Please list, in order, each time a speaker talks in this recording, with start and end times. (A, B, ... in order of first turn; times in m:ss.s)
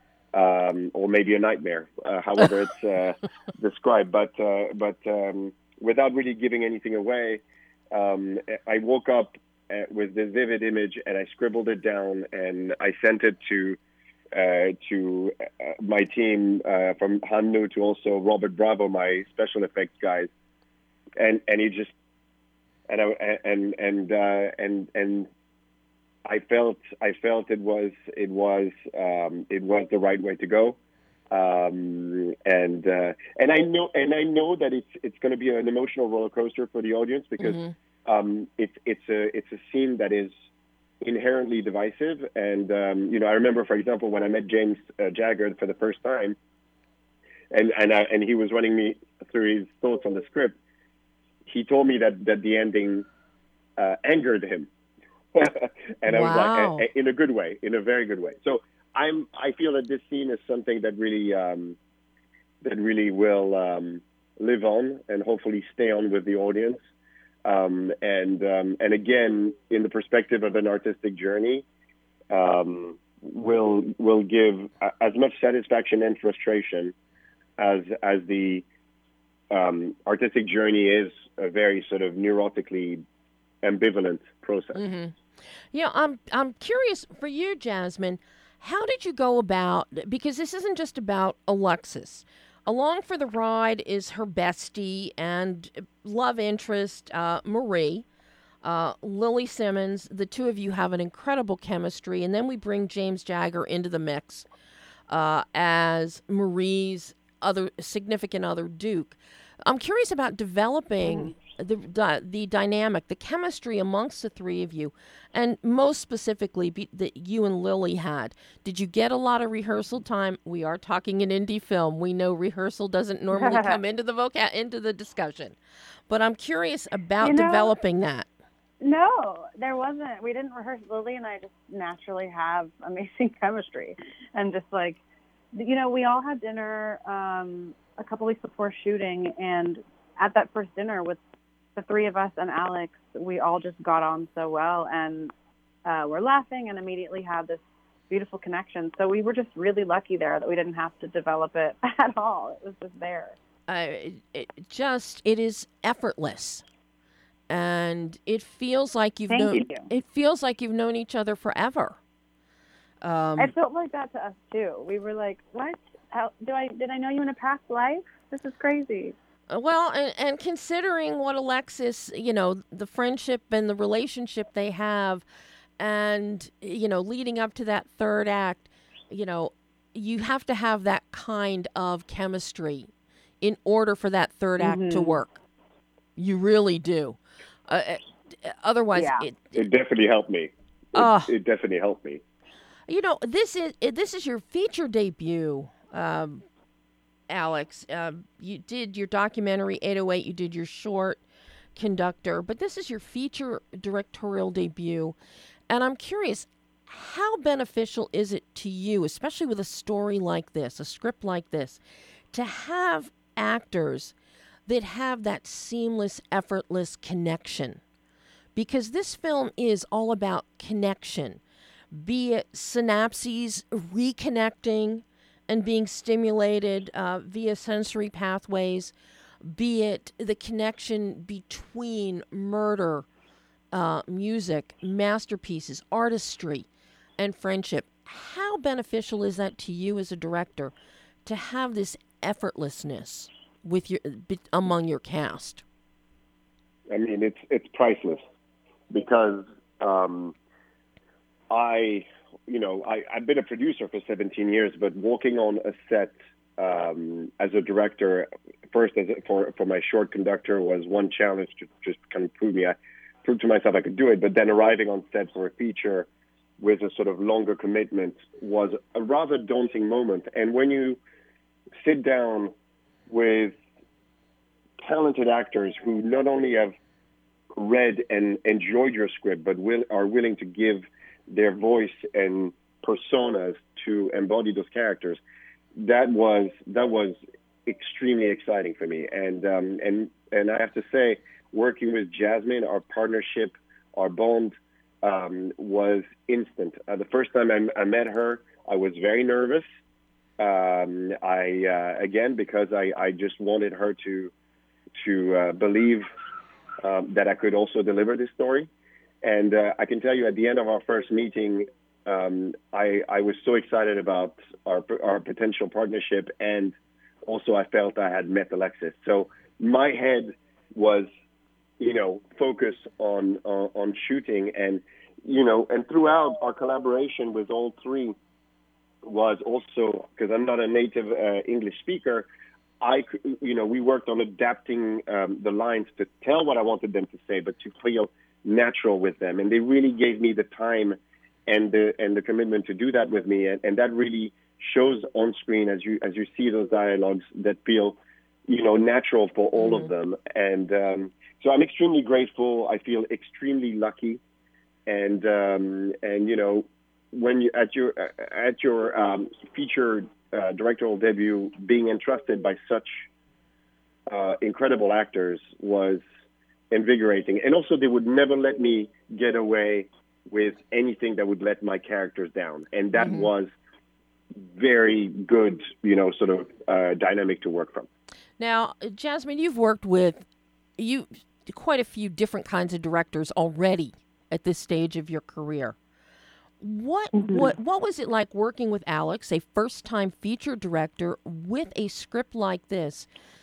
0:00.3-0:13.8 A
0:14.3-0:20.3 A
0:21.2-0:21.9 A
0:22.9-0:25.3 A
0:26.2-0:30.8 A
0:31.3-0:40.3 A
0:37.4-0:37.7 B
0:41.0-0:46.4 A
0:47.5-0:50.6 A
0:51.5-0:53.1 A
0:53.8-0:54.7 A
0:55.3-1:01.8 A
0:56.1-0:56.9 B
1:02.6-1:06.8 A
1:07.4-1:11.6 A
1:12.3-1:16.9 A
1:17.6-1:18.6 A
1:19.5-1:23.0 A
1:23.6-1:24.8 A
1:24.8-1:25.2 B
1:25.7-1:38.0 B
1:38.6-1:44.5 B
1:45.1-2:05.6 B
2:03.3-2:03.8 C
2:06.1-2:08.3 B
2:07.2-2:07.7 C
2:08.8-2:15.0 C
2:15.5-2:21.2 C
2:21.8-2:25.3 C
2:25.8-2:33.4 C
2:33.7-2:36.6 B
2:37.5-2:42.0 B
2:39.3-2:39.9 C
2:43.0-2:43.5 B
2:43.4-2:49.2 C
2:49.5-2:55.2 B
2:55.8-3:02.9 B
3:03.4-3:05.4 B
3:04.6-3:05.2 C
3:06.2-3:09.5 B
3:08.9-3:09.3 C
3:09.6-3:12.2 A
3:10.9-3:11.3 B
3:12.9-3:16.4 B
3:17.3-3:21.2 B
3:21.8-3:25.2 B
3:25.7-3:31.8 B
3:32.3-3:34.1 B
3:34.7-3:37.8 B
3:38.6-3:41.4 B
3:41.9-3:53.1 B
3:53.7-3:56.7 B
3:57.2-4:00.7 B
4:01.2-4:05.6 B
4:06.9-4:08.2 A
4:08.9-4:10.4 A
4:11.5-4:26.1 A
4:26.6-4:31.0 A
4:31.8-4:32.5 A
4:33.1-4:33.6 A
4:34.8-4:36.8 A
4:37.5-4:45.2 A
4:45.8-4:59.6 A
5:00.4-5:04.3 A
5:05.0-5:06.1 A
5:06.8-5:08.7 A
5:09.2-5:21.1 A
5:21.8-5:28.2 A
5:29.0-5:32.3 A
5:32.8-5:54.2 A
5:49.6-5:49.9 B
5:54.9-6:02.9 A
6:04.1-6:06.0 A
6:06.7-6:13.5 A
6:13.0-6:13.3 B
6:14.4-6:17.9 A
6:18.4-6:20.2 B
6:20.8-6:25.8 B
6:26.6-6:33.1 B
6:27.1-6:27.5 C